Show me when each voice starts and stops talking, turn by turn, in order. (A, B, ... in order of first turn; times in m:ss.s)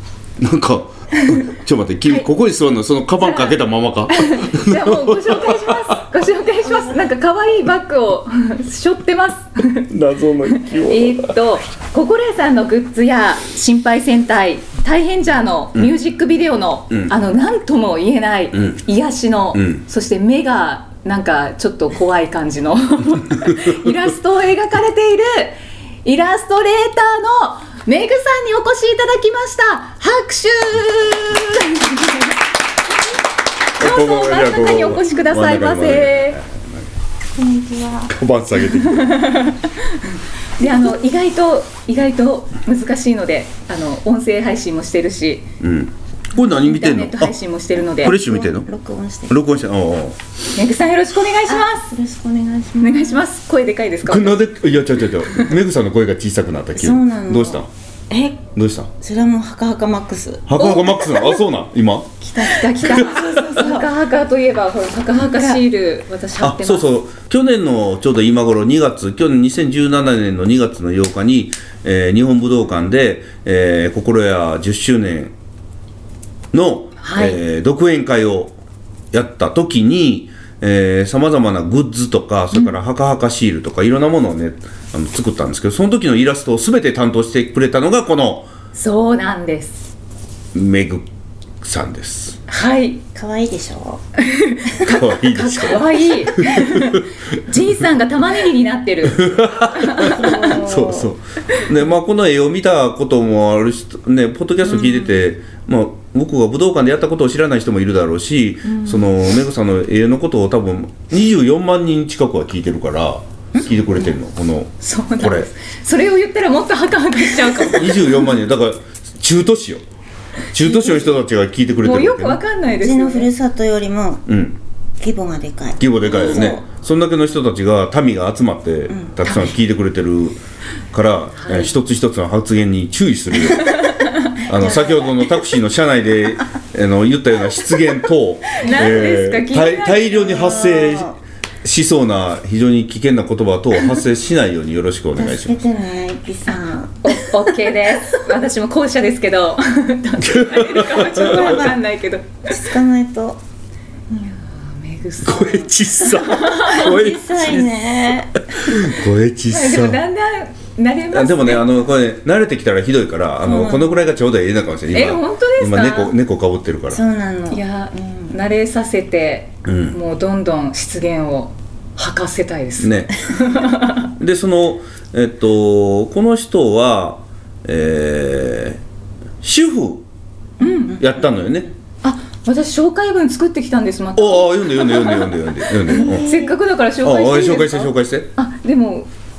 0:00.4-0:06.0 A
0:03.2-0:03.5 B
0:04.1-0:09.9 B
0:09.9-0:11.3 A
0:10.5-0:32.3 B
0:18.5-0:18.8 A
0:19.5-0:19.8 A
0:33.8-0:36.4 B
0:33.8-0:36.8 A
0:37.3-0:38.1 C
0:38.1-0:39.2 A
0:38.9-0:40.1 B
0:40.6-0:45.5 B
0:45.6-0:47.3 A
0:46.4-0:48.1 B
0:48.0-0:48.7 A
0:48.0-0:49.3 C
0:49.3-0:50.2 A
0:50.5-0:51.9 B
0:51.5-0:53.2 C
0:52.8-0:54.4 B
0:54.0-0:57.7 A
0:56.7-0:58.5 C
0:58.5-0:58.9 A
0:59.0-1:00.5 C
1:00.5-1:02.2 A
1:00.6-1:01.4 B
1:02.2-1:06.9 B
1:02.9-1:03.3 A
1:02.9-1:03.9 C
1:05.3-1:05.6 C
1:06.4-1:15.3 A
1:16.5-1:18.6 A
1:17.0-1:17.4 B
1:19.1-1:28.5 A
1:28.7-1:29.9 B
1:30.5-1:31.0 A
1:31.6-1:32.4 A
1:32.5-1:33.0 B
1:33.1-1:34.0 C
1:34.2-1:40.5 B
1:34.8-1:37.0 A
1:39.1-1:55.5 A
1:40.0-1:41.1 C
1:48.6-1:49.0 B
1:53.5-1:54.1 C
1:54.8-1:58.1 B
1:57.7-1:59.8 A
2:00.5-2:02.4 A
2:00.6-2:01.1 C
2:01.8-2:03.3 B
2:02.8-2:04.2 C
2:04.3-2:04.6 A
2:05.0-2:06.6 C
2:05.8-2:10.4 A
2:08.9-2:09.2 C
2:10.9-2:25.6 A
2:13.6-2:14.3 B
2:14.5-2:15.4 C
2:18.6-2:20.6 B
2:20.2-2:21.1 C
2:25.1-2:27.6 C
2:26.5-2:32.5 B
2:30.2-2:31.7 A
2:31.1-2:31.7 C
2:32.4-2:33.4 C
2:34.2-2:36.9 B
2:35.2-2:37.7 A
2:36.6-2:38.7 C
2:38.5-2:40.0 A
2:39.5-2:41.7 B
2:41.1-2:47.0 A
2:43.4-2:44.1 C
2:44.9-2:46.1 B
2:46.9-2:48.3 C
2:47.5-2:54.1 B
2:49.6-2:50.0 A
2:52.8-2:53.1 A
2:54.2-2:58.8 A
2:59.4-3:00.0 A
3:00.6-3:01.0 B
3:01.0-3:01.7 A
3:02.0-3:05.3 B
3:04.2-3:06.3 A
3:05.9-3:06.6 C
3:05.9-3:09.1 B
3:07.0-3:08.3 A